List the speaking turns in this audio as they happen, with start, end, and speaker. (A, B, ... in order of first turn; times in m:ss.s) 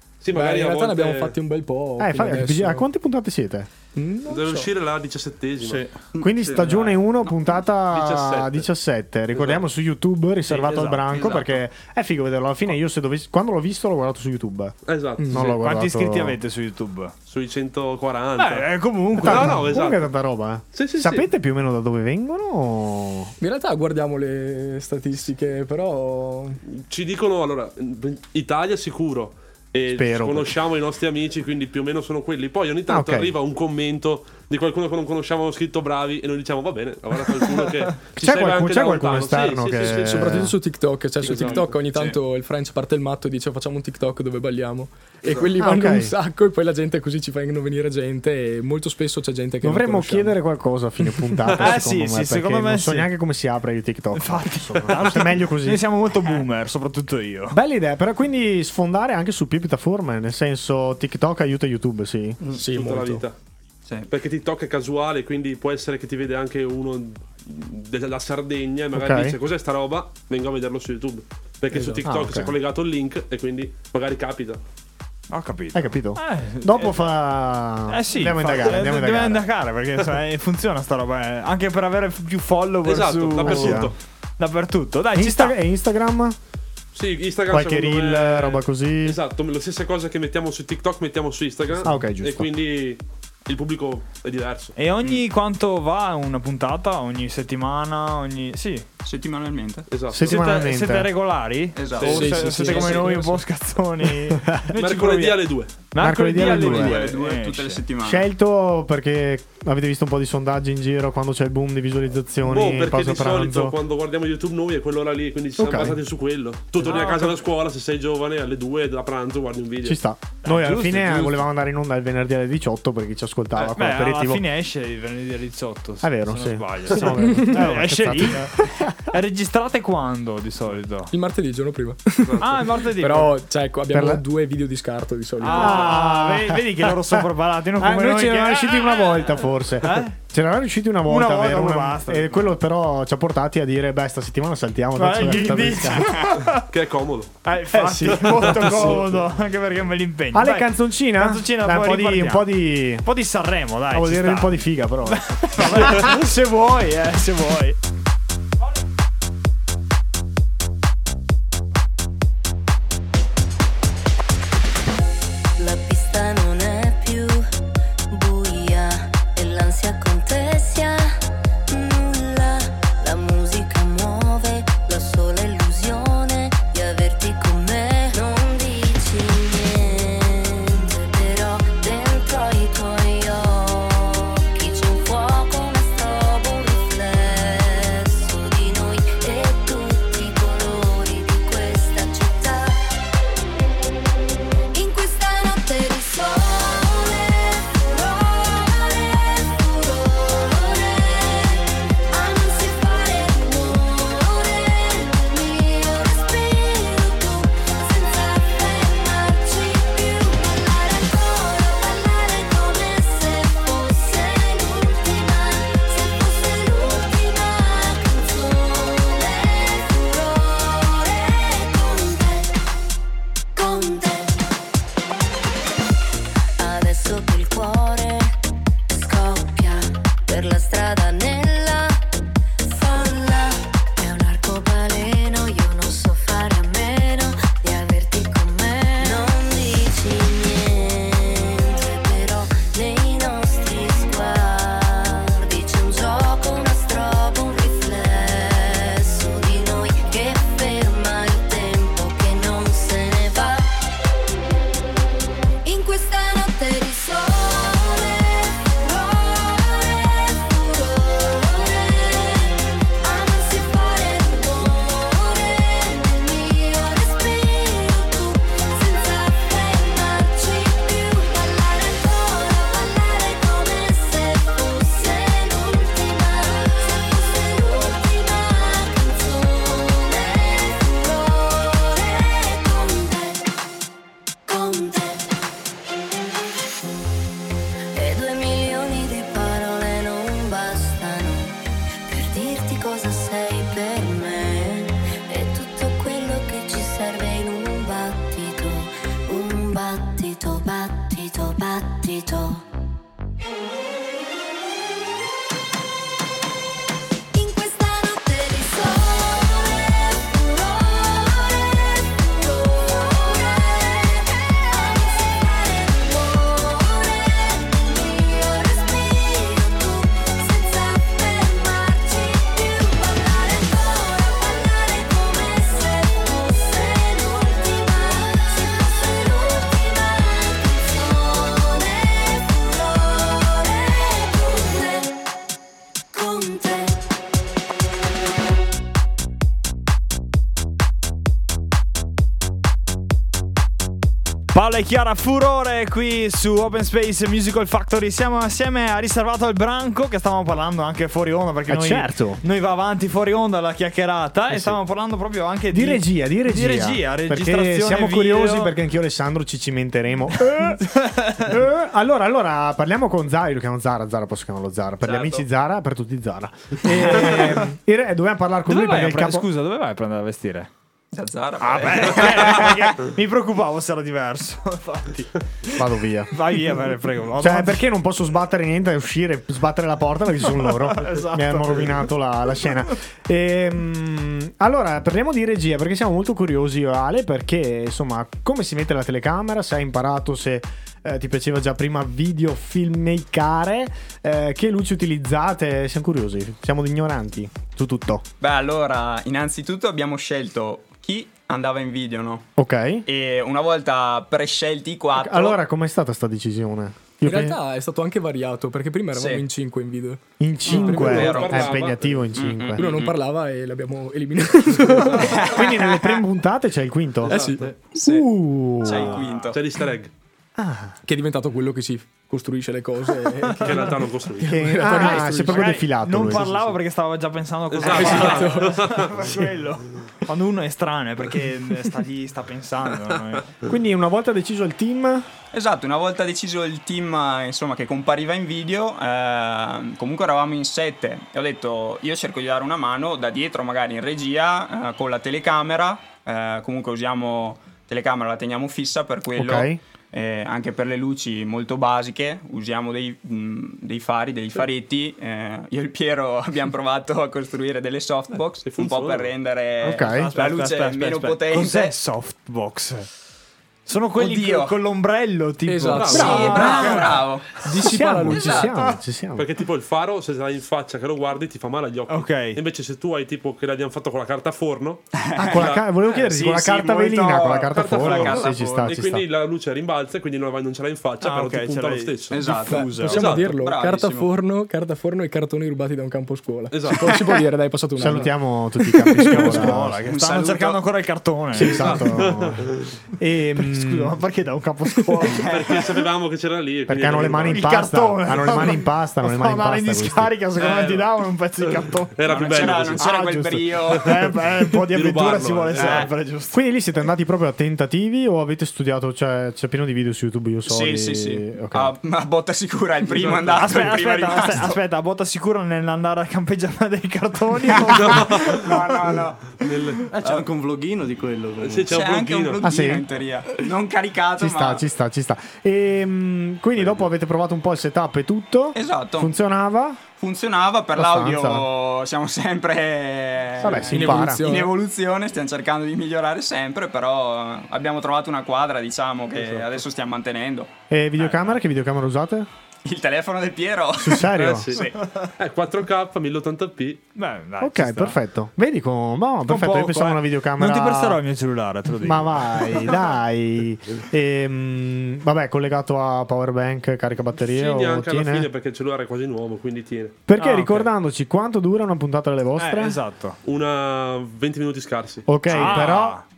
0:00.2-0:01.4 A
0:00.3-0:02.9 B
0:02.0-0:03.7 C
0:04.0-0:04.7 B
0:04.3-0:05.8 A
0:05.6-0:06.9 D
0:06.2-0:14.8 C
0:07.9-0:08.7 A
0:09.3-0:09.6 A
0:10.5-0:11.4 A
0:14.9-0:15.4 A
0:15.2-0:15.5 B
0:15.3-0:16.4 C
0:15.4-0:17.1 E
0:17.3-0:20.1 A
0:18.4-0:19.6 E
0:19.2-0:23.3 C
0:20.7-0:21.3 A
0:23.4-0:26.6 B
0:26.7-0:40.4 A
0:29.9-0:30.6 C
0:32.9-0:33.4 C
0:38.2-0:40.5 C
0:39.7-0:50.4 B
0:41.2-0:42.2 A
0:41.3-0:41.6 D
0:45.2-0:45.5 A
0:45.6-0:46.1 C
0:49.6-0:55.9 C
0:51.6-0:53.1 E
0:54.2-0:57.6 E
0:57.5-1:02.4 C
1:02.5-1:03.2 B
1:02.6-1:03.4 A
1:04.1-1:14.6 A
1:08.9-1:09.4 C
1:11.7-1:12.0 B
1:12.0-1:12.6 C
1:15.3-1:17.1 E
1:15.7-1:19.5 C
1:17.9-1:23.8 E
1:22.8-1:23.9 A
1:23.4-1:23.9 C
1:24.4-1:25.6 E
1:25.2-1:26.4 C
1:26.9-1:34.8 A
1:27.5-1:29.2 C
1:31.8-1:32.5 C
1:34.8-1:38.9 E
1:39.0-1:39.9 F
1:39.9-1:40.3 A
1:40.1-1:41.1 C
1:40.2-1:45.4 E
1:41.8-1:42.3 F
1:42.0-1:43.1 A
1:42.1-1:43.4 B
1:44.3-1:44.6 C
1:44.8-1:45.7 A
1:45.9-1:47.8 E
1:46.0-1:47.1 C
1:46.3-1:48.3 F
1:48.0-1:53.8 C
1:52.4-2:00.0 A
1:55.6-1:56.0 C
1:56.8-1:57.3 E
1:59.8-2:04.5 C
2:00.4-2:01.4 E
2:03.7-2:11.1 E
2:06.0-2:09.0 C
2:11.1-2:15.9 B
2:12.2-2:12.6 A
2:12.4-2:13.3 E
2:13.9-2:14.2 C
2:15.4-2:20.2 E
2:15.5-2:17.2 C
2:17.8-2:26.3 C
2:21.1-2:22.5 E
2:25.0-2:26.6 E
2:26.7-2:27.4 A
2:27.4-2:37.8 E
2:27.7-2:29.1 C
2:28.1-2:29.0 A
2:30.3-2:33.1 C
2:33.9-2:36.1 C
2:45.6-2:47.5 G
2:48.1-3:12.8 G
3:14.7-3:42.5 G
3:43.6-3:44.4 G
3:46.6-3:48.3 G
3:48.9-3:52.0 G
3:52.6-4:13.7 G
4:15.7-4:43.4 G
4:44.5-4:45.3 G
4:48.0-4:51.5 G
4:52.1-5:02.6 G
5:07.3-5:35.1 G
5:36.1-5:37.0 G
5:44.5-5:58.8 E
5:51.7-5:52.4 C
5:54.5-5:54.8 C
5:55.7-6:09.5 C
6:00.6-6:01.5 E
6:05.0-6:05.4 F
6:06.9-6:07.7 E
6:08.7-6:10.7 E
6:11.1-6:12.8 F
6:11.6-6:15.7 E
6:15.8-6:16.3 C
6:16.3-6:17.8 E
6:17.4-6:38.2 C
6:20.6-6:22.0 E
6:38.4-6:42.5 F
6:42.6-6:43.1 C
6:43.1-6:45.6 F
6:45.2-6:47.6 C
6:47.2-6:50.2 B
6:49.1-6:49.5 F
6:50.4-6:52.9 C
6:50.7-6:51.8 F
6:50.7-6:52.4 A
6:50.8-6:51.5 B
6:52.4-6:53.2 F
6:52.8-6:55.3 B
6:55.3-6:56.2 F
6:55.4-6:57.4 C
6:57.3-6:57.7 B
6:57.3-6:58.2 A
6:58.0-6:59.2 C
6:58.8-6:59.6 F
6:58.9-6:59.4 E
6:59.5-7:00.1 A
7:00.6-7:01.0 C
7:01.0-7:05.8 B
7:03.6-7:04.8 A
7:04.4-7:06.6 C
7:04.9-7:13.5 E
7:07.7-7:09.1 A
7:07.9-7:09.0 B
7:13.7-7:15.3 C
7:15.5-7:42.0 F
7:29.3-7:29.8 C
7:38.6-7:39.3 A
7:39.8-7:40.3 C
7:39.8-7:43.1 E
7:43.9-7:47.2 E
7:44.2-7:44.8 F
7:45.7-7:47.1 B
7:45.9-7:46.8 A
7:46.2-7:47.6 F
7:46.2-7:46.6 C
7:47.6-7:48.7 B
7:47.8-7:49.5 C
7:48.3-7:48.7 F
7:49.4-7:55.8 A
7:52.1-7:52.6 E
7:55.2-7:55.7 F
7:55.4-7:59.2 C
7:56.2-7:57.6 E
7:56.4-7:58.9 F
7:57.7-8:02.4 A
8:01.2-8:03.2 E
8:02.3-8:04.3 F
8:02.7-8:09.6 B
8:03.1-8:03.6 A
8:06.7-8:07.2 A
8:08.0-8:10.0 C
8:09.3-8:12.0 E
8:10.0-8:10.8 F
8:11.5-8:14.2 C
8:11.7-8:12.9 A
8:13.6-8:15.4 E
8:15.3-8:16.0 F
8:15.5-8:17.6 A
8:16.9-8:20.4 C
8:17.3-8:26.6 E
8:20.6-8:21.0 F
8:22.2-8:23.1 A
8:22.2-8:24.1 F
8:23.9-8:24.2 A
8:24.9-8:26.1 A
8:25.8-8:26.1 F
8:26.5-8:31.9 C
8:30.7-8:34.8 F
8:33.1-8:33.7 A
8:33.5-8:38.7 E
8:37.7-8:39.6 F
8:38.0-8:38.7 A
8:39.6-8:40.1 A
8:40.1-8:42.0 D
8:40.2-8:40.5 F
8:41.6-8:42.7 A
8:41.9-8:44.8 F
8:42.6-8:43.1 C
8:44.4-8:50.0 C
8:48.8-8:49.3 F
8:50.2-9:00.7 F
8:51.0-8:51.7 C
8:53.6-8:54.5 C
8:53.8-8:54.7 B
8:59.4-8:59.7 A
9:00.9-9:02.5 C
9:01.2-9:01.6 E
9:02.8-9:05.0 F
9:04.0-9:04.7 C
9:04.3-9:07.0 A
9:07.2-9:08.2 E
9:07.6-9:11.2 C
9:09.5-9:12.8 E
9:12.0-9:18.5 C
9:17.4-9:20.2 A
9:20.3-9:23.0 C
9:20.4-9:20.9 E
9:22.6-9:23.4 E
9:23.4-9:25.3 A
9:25.3-9:26.2 C
9:25.5-9:26.2 E